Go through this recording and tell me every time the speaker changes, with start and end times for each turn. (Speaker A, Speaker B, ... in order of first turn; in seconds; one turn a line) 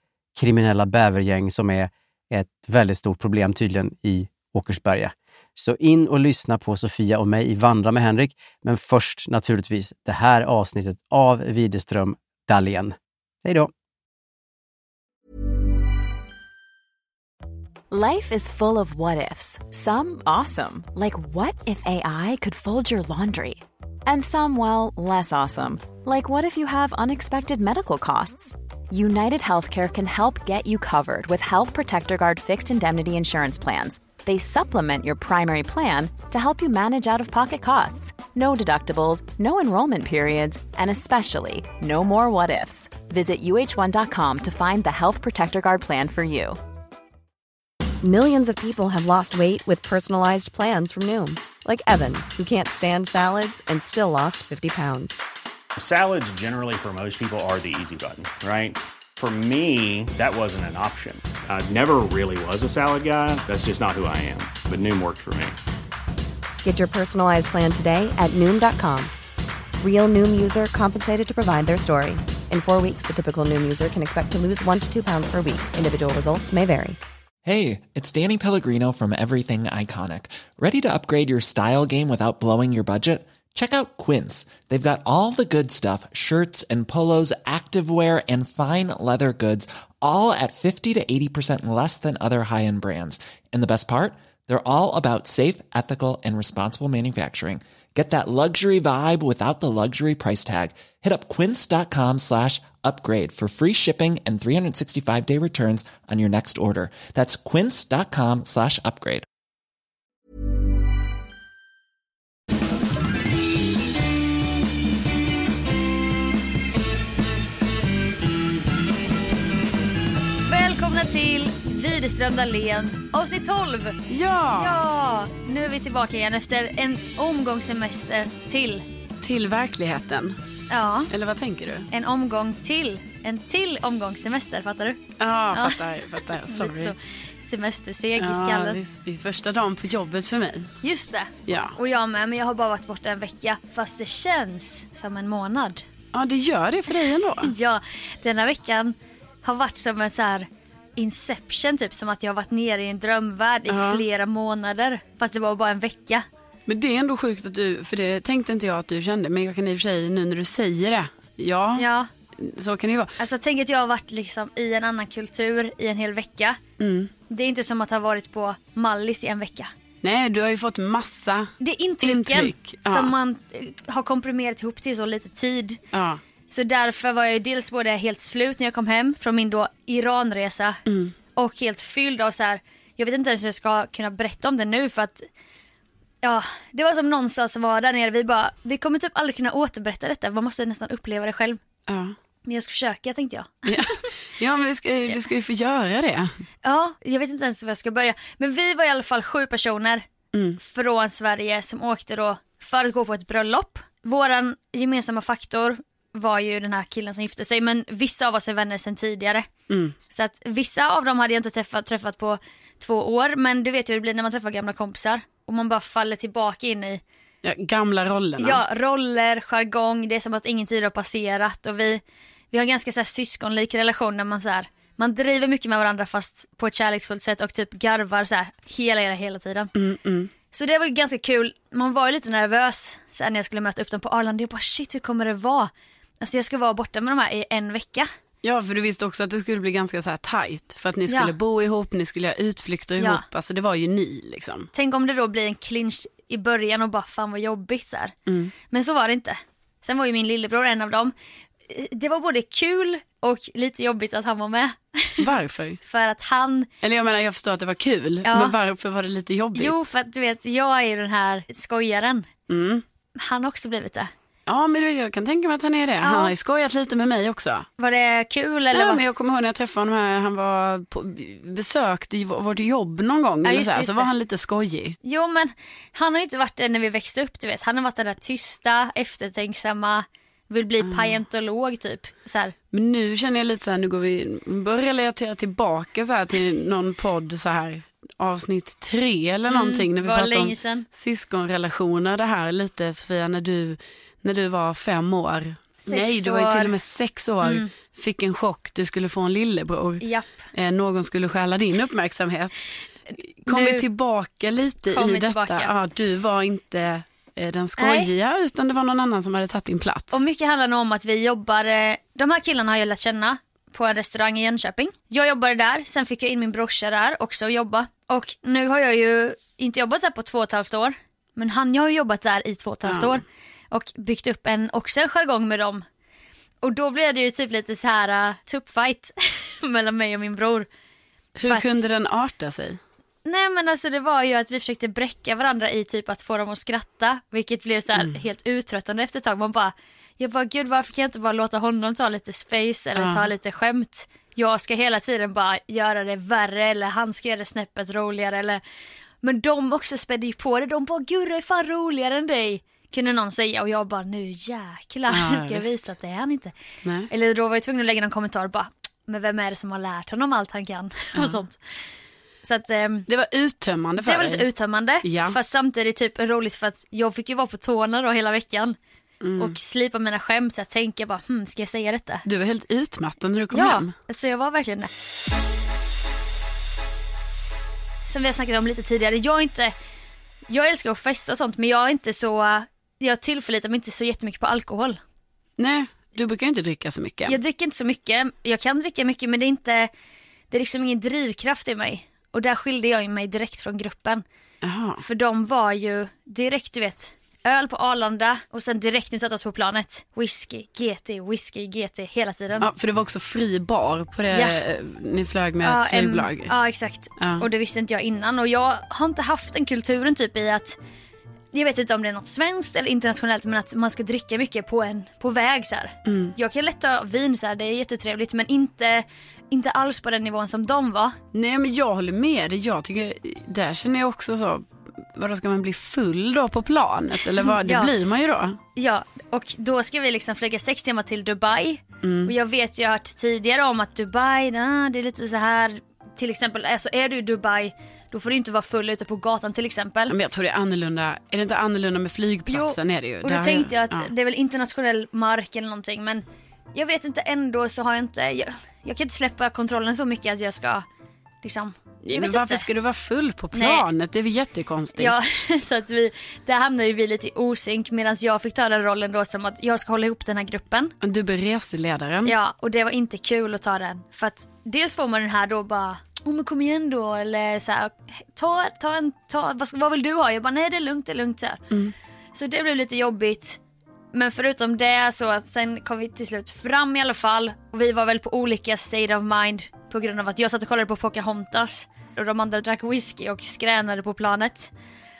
Speaker A: 0.3-13.7
Speaker B: 17.9-46.6
Speaker C: 48.0-55.2
Speaker D: 55.8-65.6
Speaker C: 66.6-69.1
Speaker C: 69.8-77.0
Speaker E: 77.4-109.2
Speaker F: 120.5-124.0
Speaker G: 124.1-124.8
Speaker F: 124.6-128.8
Speaker G: 129.2-130.4
Speaker F: 130.7-131.1
Speaker G: 131.1-131.9
Speaker F: 131.9-135.8
Speaker G: 135.2-136.9
Speaker F: 136.4-138.8
Speaker G: 138.2-140.7
Speaker F: 140.8-145.8
Speaker G: 141.5-141.7
Speaker G: 146.1-147.5
Speaker F: 147.4-156.2
Speaker G: 153.7-154.0
Speaker G: 156.7-163.1
Speaker F: 161.8-162.1
Speaker F: 163.2-166.6
Speaker G: 166.8-167.1
Speaker F: 167.3-169.7
Speaker G: 170.0-173.1
Speaker F: 171.6-175.8
Speaker G: 175.9-176.2
Speaker F: 176.5-180.8
Speaker G: 180.8-181.1
Speaker F: 181.3-185.2
Speaker F: 186.2-191.6
Speaker G: 191.9-192.1
Speaker F: 192.4-193.9
Speaker G: 193.7-196.3
Speaker F: 196.6-200.0
Speaker G: 200.3-200.6
Speaker F: 200.6-209.5
Speaker G: 209.7-209.9
Speaker F: 210.1-217.0
Speaker G: 217.4-218.6
Speaker F: 218.4-229.7
Speaker G: 229.7-230.3
Speaker F: 230.5-238.1
Speaker G: 238.4-244.7
Speaker F: 241.1-241.3
Speaker F: 243.0-243.2
Speaker F: 244.7-248.1
Speaker G: 248.3-248.5
Speaker F: 248.7-251.1
Speaker F: 251.7-255.2
Speaker G: 255.2-255.8
Speaker F: 255.8-256.7
Speaker G: 256.8-259.7
Speaker F: 258.2-258.5
Speaker F: 259.5-262.3
Speaker G: 262.5-262.8
Speaker F: 263.2-264.1
Speaker G: 264.5-267.7
Speaker F: 266.0-266.3
Speaker F: 267.8-269.0
Speaker G: 268.7-275.0
Speaker F: 273.4-274.1
Speaker F: 275.0-282.5
Speaker G: 280.8-281.2
Speaker G: 282.7-302.6
Speaker F: 289.5-290.9
Speaker F: 295.8-296.7
Speaker F: 297.4-297.7
Speaker F: 300.0-300.3
Speaker F: 303.1-303.9
Speaker G: 303.4-310.2
Speaker F: 304.9-305.7
Speaker F: 307.8-308.1
Speaker F: 310.1-325.8
Speaker G: 322.9-323.2
Speaker F: 326.6-330.7
Speaker G: 331.4-332.8
Speaker F: 331.4-331.8
Speaker F: 333.2-348.6
Speaker G: 342.9-343.3
Speaker F: 349.2-356.5
Speaker G: 355.1-355.7
Speaker G: 356.8-357.1
Speaker F: 357.1-361.6
Speaker F: 362.4-363.1
Speaker G: 363.1-364.5
Speaker F: 364.0-368.8
Speaker G: 365.0-365.4
Speaker G: 369.2-369.6
Speaker F: 369.4-372.2
Speaker G: 372.2-373.9
Speaker F: 373.5-374.9
Speaker F: 378.1-379.7
Speaker F: 380.5-385.0
Speaker G: 385.6-387.4
Speaker F: 387.2-389.9
Speaker F: 390.5-394.2
Speaker G: 394.6-395.0
Speaker F: 395.0-402.7
Speaker G: 402.6-406.5
Speaker F: 404.3-404.6
Speaker F: 405.6-410.8
Speaker G: 407.2-407.5
Speaker F: 411.5-421.2
Speaker G: 416.1-416.3
Speaker G: 421.3-428.6
Speaker F: 427.4-427.9
Speaker F: 428.8-440.1
Speaker G: 432.0-432.3
Speaker G: 440.1-444.1
Speaker F: 442.5-450.9
Speaker F: 451.4-452.6
Speaker G: 452.0-455.1
Speaker F: 453.5-453.9
Speaker F: 455.0-460.9
Speaker G: 461.0-462.3
Speaker F: 462.2-471.6
Speaker F: 472.3-473.6
Speaker F: 474.1-484.7